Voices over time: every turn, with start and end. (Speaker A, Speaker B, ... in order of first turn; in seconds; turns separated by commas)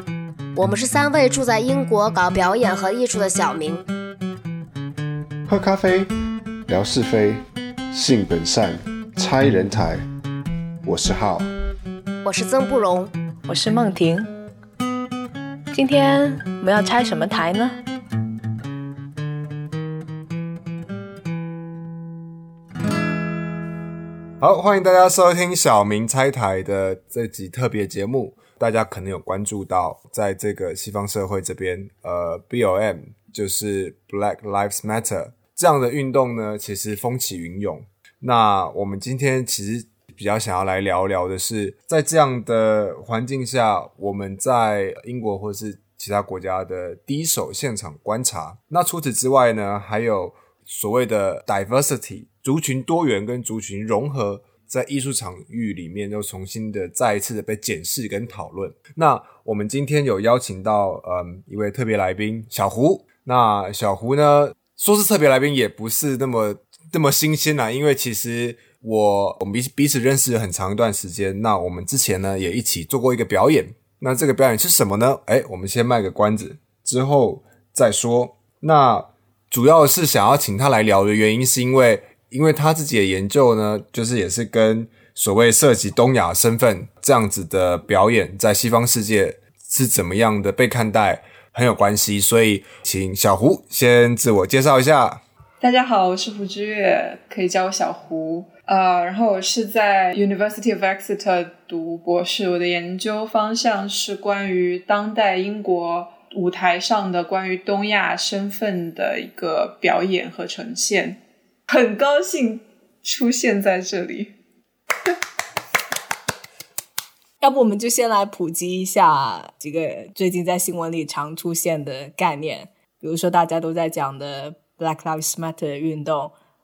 Speaker A: 0.6-3.9, Speaker B: 5.5-6.1, Speaker B: 6.7-10.0, Speaker B: 10.8-11.5, Speaker A: 12.2-13.1, Speaker C: 13.5-14.3, Speaker C: 15.7-17.8, Speaker D: 24.4-95.2, Speaker E: 95.6-114.3, Speaker C: 117.4-126.3